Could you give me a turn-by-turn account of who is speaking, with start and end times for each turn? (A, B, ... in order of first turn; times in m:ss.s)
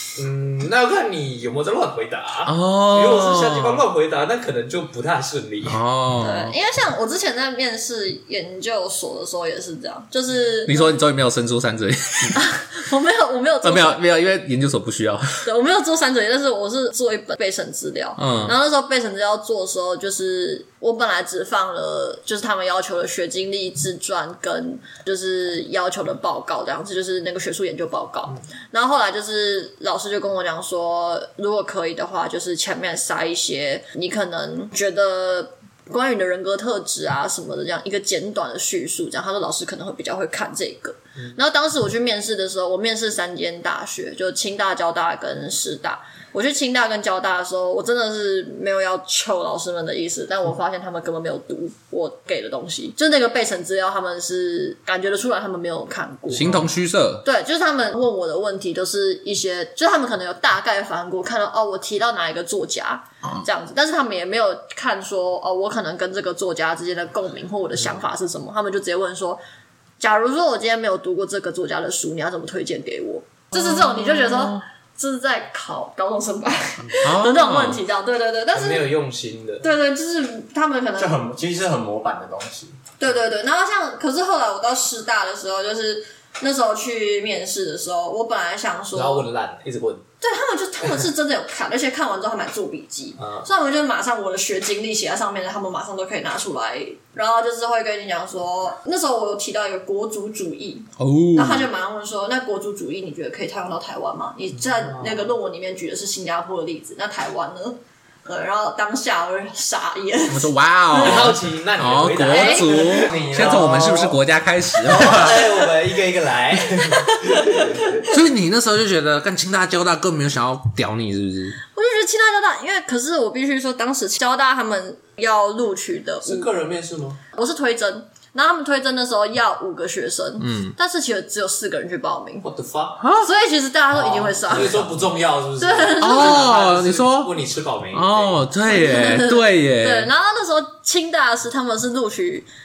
0:00.2-0:05.8 A
0:02.4-0:03.8 B
0:05.6-0:06.6 B
0:06.2-0:11.0 C
0:10.6-0:12.4 B
0:12.4-0:14.0 C
0:13.6-0:15.5 B
0:15.4-0:56.6 C
0:18.2-0:18.6 B
0:56.3-0:57.2 B
0:57.2-1:09.4 C
1:10.0-1:19.0 C
1:13.5-1:14.6 B
1:17.0-1:17.8 B
1:18.5-1:19.7 A
1:19.6-1:21.2 C
1:21.0-1:22.7 D
1:23.0-1:29.3 C
1:28.9-1:30.0 A
1:30.2-1:51.4 C
1:33.2-1:33.5 A
1:41.0-1:41.7 B
1:44.7-1:45.3 A
1:50.3-1:55.4 B
1:50.9-1:53.8 A
1:52.3-1:53.1 C
1:52.9-1:54.2 D
1:54.8-1:58.0 A
1:55.1-1:55.3 C
1:56.8-1:58.0 C
1:58.0-2:01.6 B
2:01.7-2:06.5 C
2:06.2-2:07.2 A
2:07.3-2:12.5 C
2:10.4-2:10.8 B
2:12.4-2:13.0 A
2:13.0-2:13.3 B
2:13.1-2:14.9 C
2:13.9-2:18.5 A
2:15.6-2:16.4 C
2:16.0-2:17.3 B
2:17.9-2:20.1 B
2:18.6-2:22.5 C